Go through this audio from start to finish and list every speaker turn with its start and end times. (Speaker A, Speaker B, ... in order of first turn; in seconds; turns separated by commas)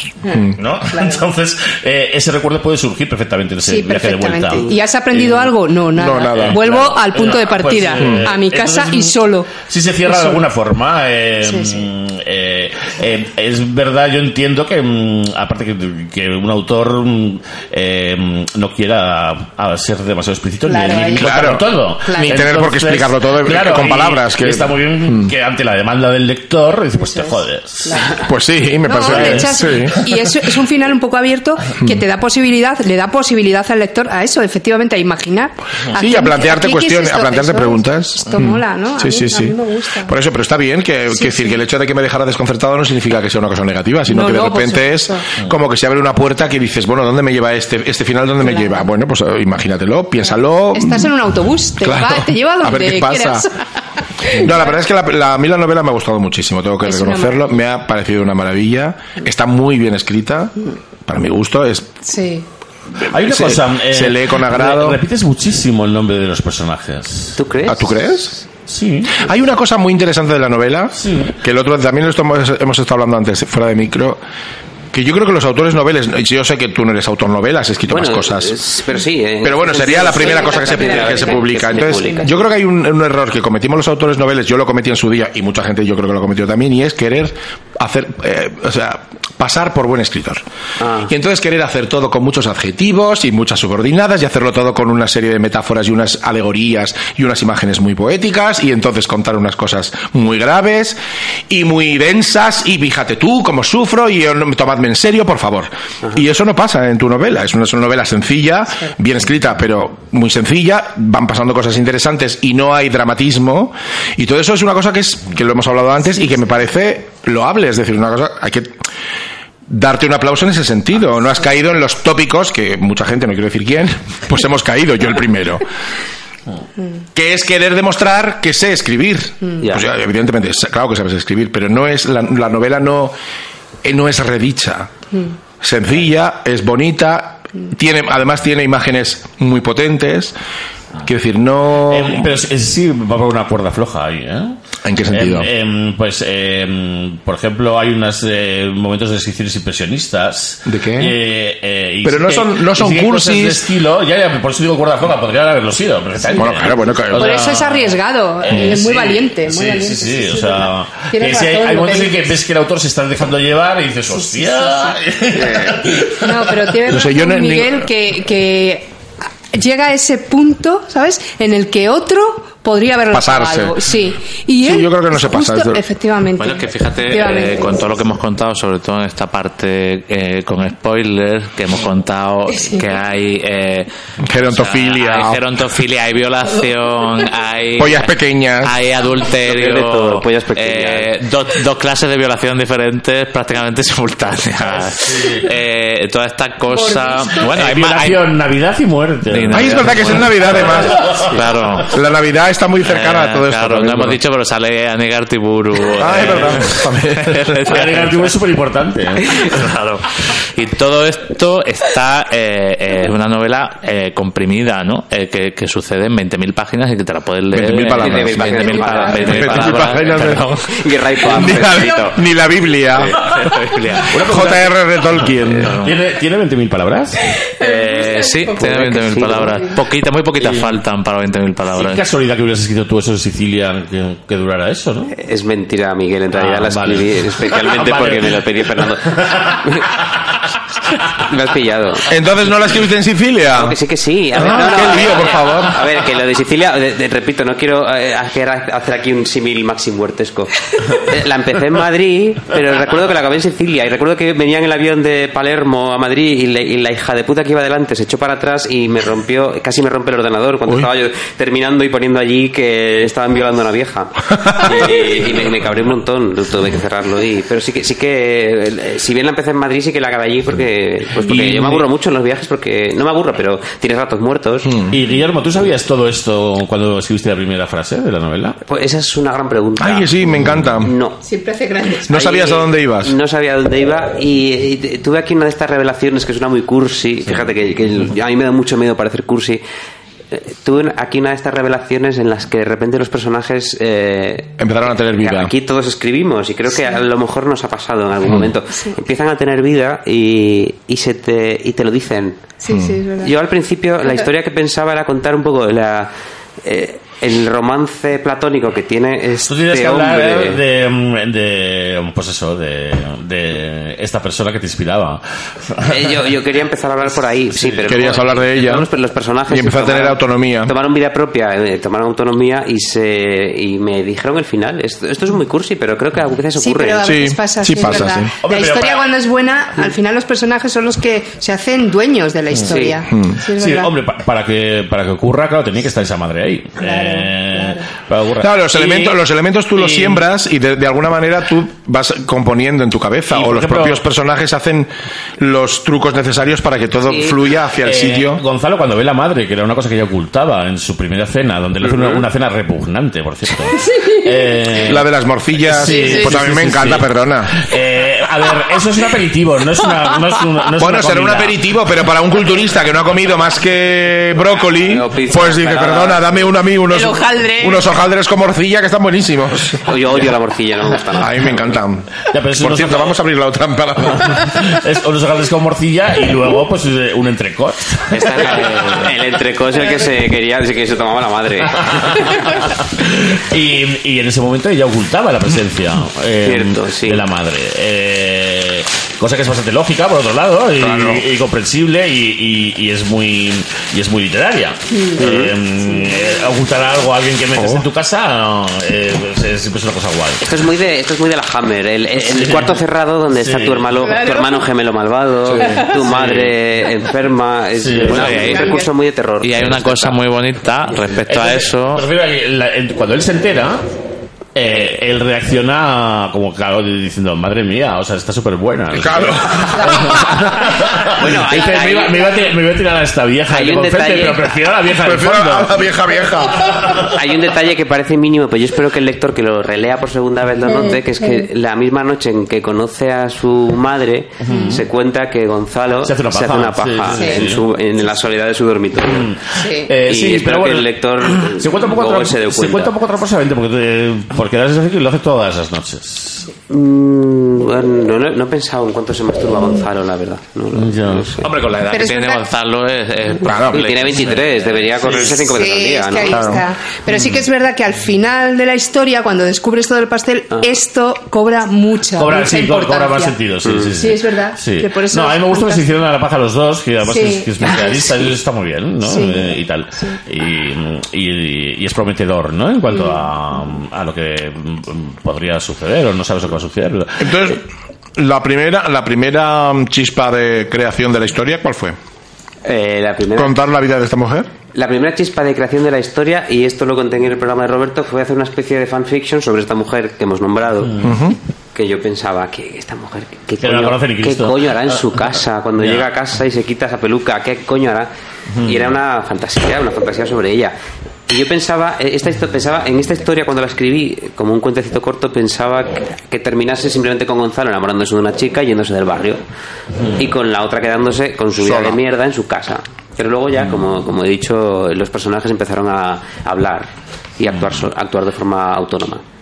Speaker A: 0.2-1.2, Speaker B: 0.6-4.7, Speaker A: 3.6-10.4, Speaker C: 5.9-6.6, Speaker B: 6.3-28.0, Speaker C: 8.0-8.2, Speaker A: 11.4-11.9, Speaker A: 20.6-22.5, Speaker C: 21.1-25.3, Speaker A: 26.9-28.2, Speaker C: 28.2-30.0, Speaker A: 28.8-40.1, Speaker B: 29.0-30.1, Speaker C: 35.9-51.1, Speaker A: 41.1-41.6, Speaker A: 44.1-45.3, Speaker A: 48.4-48.9, Speaker A: 50.7-53.6, Speaker C: 51.8-53.5, Speaker A: 54.2-54.7, Speaker C: 54.3-62.0, Speaker A: 56.8-57.4, Speaker A: 62.0-62.4, Speaker B: 63.0-67.4, Speaker C: 63.1-65.0, Speaker D: 67.4-68.2, Speaker C: 67.7-68.3, Speaker B: 68.7-69.2, Speaker C: 69.2-74.2, Speaker B: 71.0-71.4, Speaker C: 74.9-78.6, Speaker D: 77.9-82.3, Speaker C: 79.4-90.4, Speaker A: 79.8-82.4, Speaker D: 90.8-91.1, Speaker C: 91.0-101.0, Speaker C: 101.5-118.8, Speaker C: 119.7-125.7, Speaker C: 127.1-133.2, Speaker D: 129.6-129.9, Speaker C: 133.8-134.9, Speaker C: 135.6-140.3, Speaker C: 141.0-142.3, Speaker B: 141.8-144.6, Speaker C: 144.8-145.5, Speaker B: 145.1-166.6, Speaker C: 150.7-151.2, Speaker C: 152.0-153.7, Speaker A: 156.2-162.3, Speaker C: 156.3-157.4, Speaker A: 164.2-164.9, Speaker D: 165.3-165.8, Speaker A: 166.2-168.9, Speaker C: 166.8-167.8, Speaker A: 169.5-178.1, Speaker C: 173.1-173.8, Speaker C: 174.6-175.8, Speaker E: 176.4-198.2, Speaker A: 182.5-182.9, Speaker C: 184.2-185.4, Speaker C: 187.8-188.7, Speaker D: 189.4-191.1, Speaker B: 195.0-195.4, Speaker A: 196.7-197.5, Speaker B: 197.5-201.8, Speaker E: 199.3-201.9, Speaker C: 199.5-201.2, Speaker C: 201.9-204.2, Speaker E: 202.8-208.3, Speaker C: 206.0-207.8, Speaker B: 206.1-206.6, Speaker B: 207.6-209.4, Speaker E: 209.2-220.7, Speaker C: 217.5-220.5, Speaker D: 217.9-222.2, Speaker C: 221.2-223.5, Speaker E: 223.2-224.2, Speaker B: 224.1-227.2, Speaker C: 224.1-225.7, Speaker E: 225.6-226.0, Speaker A: 227.5-228.6, Speaker E: 227.6-232.0, Speaker D: 228.6-229.6, Speaker A: 229.4-229.8, Speaker B: 230.4-230.8, Speaker B: 231.7-235.1, Speaker D: 235.1-239.9, Speaker B: 236.3-238.4, Speaker B: 239.1-239.6, Speaker D: 241.1-242.1, Speaker C: 242.1-243.8, Speaker D: 243.5-274.8, Speaker C: 244.3-245.8, Speaker B: 271.2-271.9, Speaker C: 274.6-275.0, Speaker B: 274.9-278.6, Speaker D: 278.6-281.2, Speaker C: 279.8-280.9, Speaker A: 281.2-282.2, Speaker C: 282.1-283.1, Speaker D: 282.1-289.6, Speaker D: 290.3-302.5, Speaker C: 294.6-295.5, Speaker A: 302.6-303.3, Speaker C: 302.7-303.0, Speaker D: 303.2-306.1, Speaker D: 306.6-310.6, Speaker B: 309.5-316.2, Speaker D: 315.8-327.1, Speaker B: 317.6-317.8, Speaker C: 317.9-318.9, Speaker C: 319.5-320.7, Speaker A: 326.6-333.9, Speaker C: 327.0-328.3, Speaker B: 328.3-329.0, Speaker B: 332.5-332.8, Speaker D: 332.7-333.0, Speaker C: 333.1-333.4, Speaker B: 333.5-339.2, Speaker A: 336.8-337.9, Speaker C: 338.4-348.4, Speaker B: 339.7-340.2, Speaker B: 343.3-344.0, Speaker D: 347.1-347.4, Speaker B: 347.8-361.6, Speaker D: 351.8-352.2, Speaker C: 354.8-357.5, Speaker A: 355.8-356.3, Speaker C: 360.8-369.9, Speaker D: 364.8-366.3, Speaker A: 366.9-367.9, Speaker D: 369.8-371.5, Speaker C: 371.1-374.6, Speaker B: 372.2-373.2, Speaker B: 374.1-378.8, Speaker E: 378.1-379.1, Speaker D: 378.2-382.1, Speaker B: 381.7-400.4, Speaker D: 386.4-387.2, Speaker D: 390.8-391.2, Speaker A: 394.9-395.2, Speaker D: 395.2-395.5, Speaker A: 395.8-396.4, Speaker C: 397.6-397.8, Speaker D: 400.4-410.1, Speaker B: 402.2-402.8, Speaker B: 403.3-404.0, Speaker A: 404.0-404.6, Speaker B: 405.6-406.6, Speaker A: 405.6-406.0, Speaker B: 407.8-408.5, Speaker E: 408.0-408.9, Speaker A: 408.4-408.9, Speaker E: 409.4-412.1, Speaker B: 411.3-413.8, Speaker B: 414.5-425.8, Speaker C: 418.9-420.5, Speaker D: 421.1-422.5, Speaker D: 423.5-424.6, Speaker C: 425.0-427.1, Speaker B: 426.7-427.1, Speaker D: 427.0-439.3, Speaker A: 430.7-431.4, Speaker B: 434.4-434.8, Speaker A: 434.5-434.8, Speaker B: 436.0-437.6, Speaker A: 437.1-437.5, Speaker B: 439.1-446.4, Speaker A: 439.6-439.9, Speaker D: 440.1-442.9, Speaker D: 446.7-451.5, Speaker B: 450.7-451.3, Speaker E: 451.4-454.7, Speaker A: 451.9-452.5, Speaker C: 453.4-453.9, Speaker D: 453.7-456.6, Speaker B: 455.0-455.4, Speaker A: 455.5-463.4, Speaker C: 456.3-456.6, Speaker B: 462.1-477.6, Speaker D: 463.6-463.9, Speaker A: 464.0-465.9, Speaker A: 467.0-468.3, Speaker A: 469.0-470.2, Speaker A: 472.9-473.3, Speaker C: 477.2-477.6, Speaker C: 478.1-482.0, Speaker D: 482.6-483.5, Speaker C: 483.3-484.5, Speaker D: 484.7-491.1, Speaker B: 490.9-491.2, Speaker C: 491.0-491.4, Speaker D: 491.7-498.1, Speaker B: 493.6-495.0, Speaker B: 495.8-496.1, Speaker B: 498.5-498.9, Speaker D: 498.6-500.7, Speaker D: 501.3-509.4, Speaker D: 510.1-519.2, Speaker C: 511.6-512.0